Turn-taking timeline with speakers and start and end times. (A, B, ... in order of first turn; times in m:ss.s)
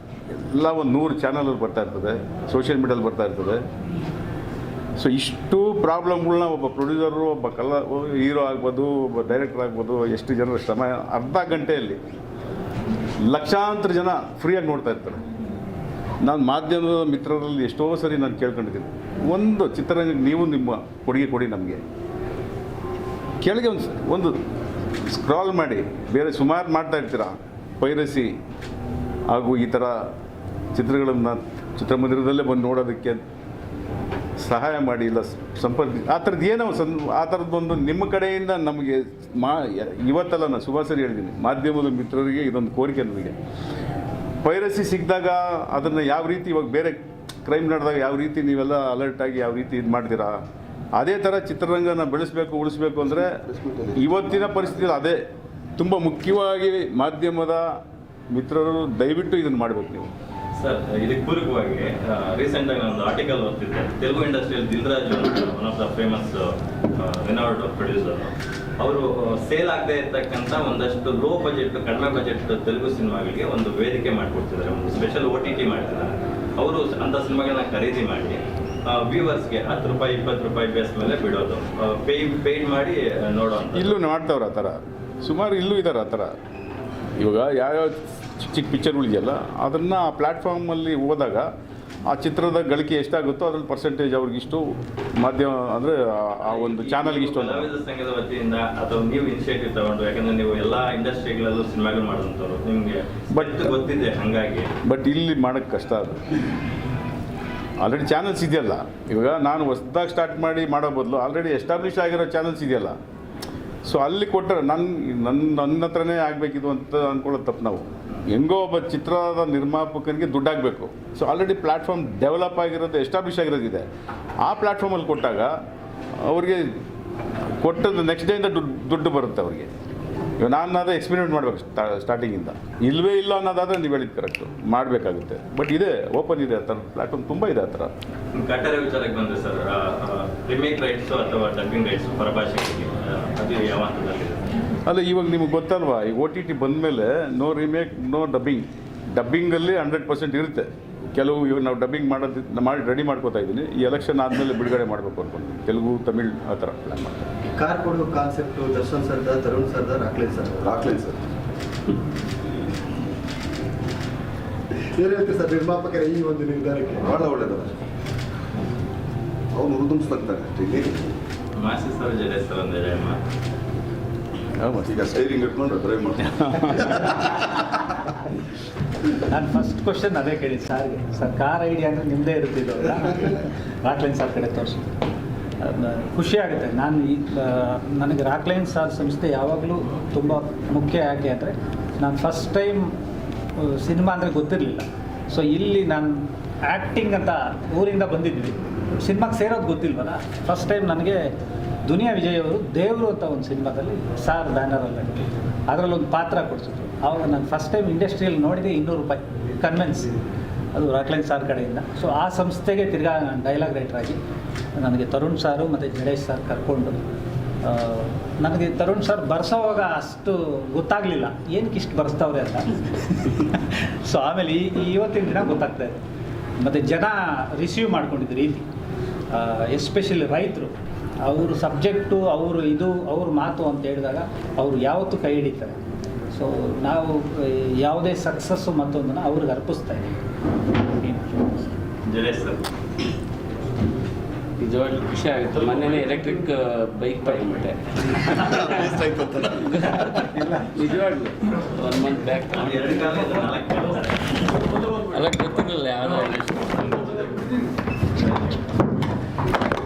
0:00.3-0:03.6 A
0:05.0-0:12.0 A
0:13.2-0:15.2 A
0:16.2-0:21.8 A
0:23.4-0:24.4 A
0:25.0-0:28.3 A
0:29.3-0:30.1 A
0:30.7-0:33.2 A
0:34.4-0:43.4 A
0:44.4-0:50.4 A
0:51.0-0:53.4 A
0:53.1-0:54.9 B
0:54.0-0:55.2 A
0:55.8-1:00.1 A
1:00.6-1:24.0 C
1:23.7-1:26.4 A
1:27.2-1:31.5 A
1:32.1-1:37.7 A
1:36.5-1:44.7 C
1:43.3-1:43.7 A
1:44.8-1:46.2 A
1:47.8-1:53.0 A
1:53.8-2:03.8 A
2:04.4-2:05.5 A
2:06.2-2:06.8 A
2:07.6-2:09.7 A
2:10.4-2:17.9 A
2:18.3-2:24.4 C
2:24.8-2:37.3 A
2:37.5-2:40.6 D
2:40.6-2:41.2 B
2:45.0-2:47.2 D
2:47.0-2:47.8 B
2:49.5-2:51.1 B
2:51.6-2:53.2 C
2:54.6-2:55.2 A
2:54.8-2:57.4 B
2:56.2-2:57.2 A
2:59.3-3:04.9 E
3:05.6-3:12.9 E
3:13.6-3:21.3 E
3:21.8-3:30.1 E
3:30.7-3:34.2 E
3:34.8-3:37.0 E
3:37.6-3:46.0 E
3:46.6-3:48.6 E
3:49.3-3:55.7 E
3:56.3-4:00.1 E
4:02.1-4:02.6 C
4:04.6-4:08.9 F
4:08.3-4:09.8 B
4:09.6-4:13.4 F
4:12.5-4:14.2 C
4:15.0-4:16.9 F